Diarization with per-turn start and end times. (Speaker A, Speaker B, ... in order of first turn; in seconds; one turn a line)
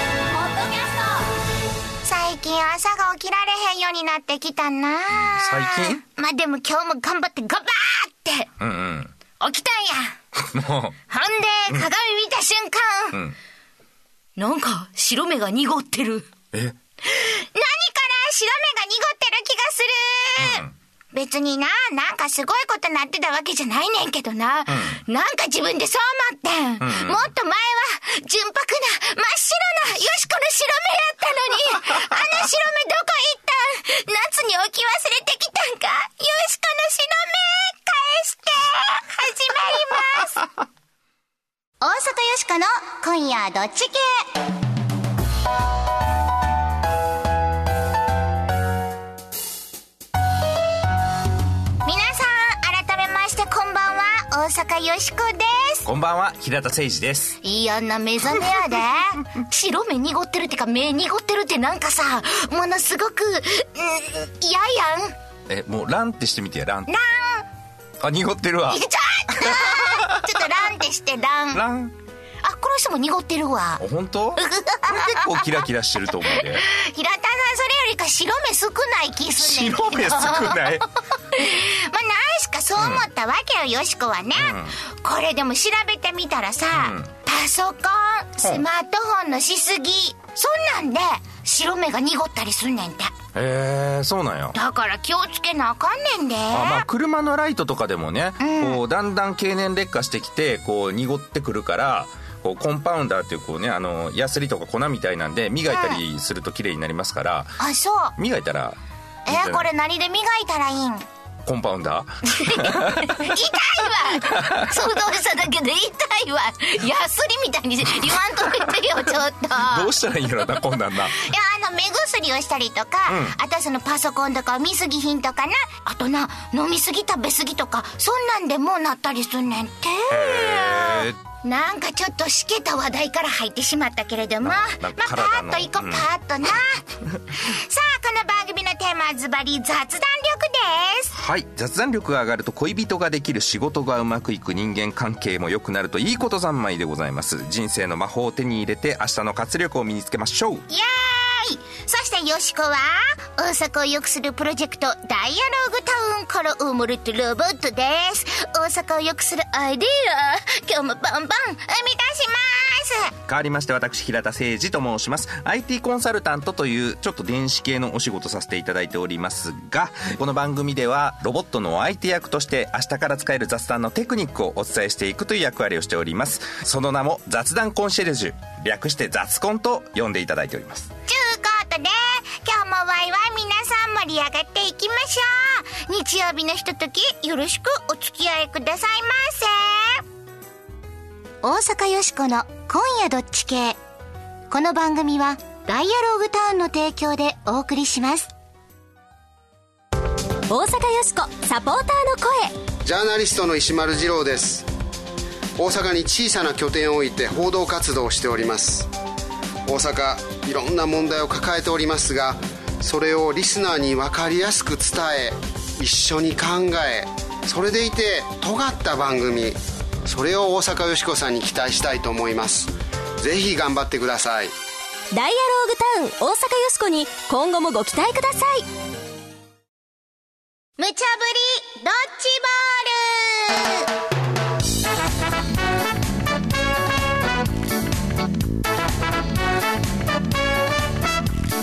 Speaker A: 0.3-1.3
Speaker A: 2.0-8.5
Speaker B: 5.3-6.0
Speaker B: 8.6-9.1
Speaker A: 9.4-10.2
Speaker B: 10.3-11.0
Speaker A: 11.1-13.2
Speaker A: 14.4-16.3
Speaker B: 16.5-16.8
Speaker A: 17.1-40.5
Speaker B: 20.4-20.7
Speaker B: 24.7-25.0
Speaker B: 26.8-27.3
Speaker A: 41.8-44.4
Speaker A: 51.8-55.9
Speaker B: 55.8-57.4
Speaker A: 57.4-65.1
Speaker B: 65.5-66.9
Speaker A: 66.9-67.5
Speaker B: 68.0-70.4
Speaker A: 68.7-71.6
Speaker B: 71.5-71.9
Speaker A: 72.4-73.8
Speaker B: 73.8-76.6
Speaker A: 74.3-75.6
Speaker A: 76.4-93.1
Speaker B: 79.4-80.8
Speaker B: 82.8-83.0
Speaker B: 84.3-84.7
Speaker B: 86.7-87.1
Speaker B: 93.3-94.6
Speaker A: 94.5-96.8
Speaker B: 96.5-107.6
Speaker A: 98.4-98.8
Speaker A: 105.7-106.0
Speaker A: 107.6-108.1
Speaker B: 108.2-109.6
Speaker A: 109.2-111.0
Speaker B: 111.4-113.4
Speaker A: 112.2-119.9
Speaker B: 114.1-114.8
Speaker B: 119.5-121.2
Speaker A: 121.1-136.8
Speaker B: 123.1-123.3
Speaker B: 130.1-131.2
Speaker B: 134.4-136.1
Speaker A: 137.3-141.1
Speaker B: 141.1-150.7
Speaker A: 150.7-163.1
Speaker B: 163.2-180.9
Speaker A: 181.1-190.0
Speaker A: 191.4-193.8
Speaker A: 194.5-198.3
Speaker C: 200.5-202.6
Speaker D: 202.8-204.7
Speaker D: 205.6-208.9
Speaker D: 209.7-224.5
Speaker C: 225.1-228.7
Speaker A: 230.8-233.9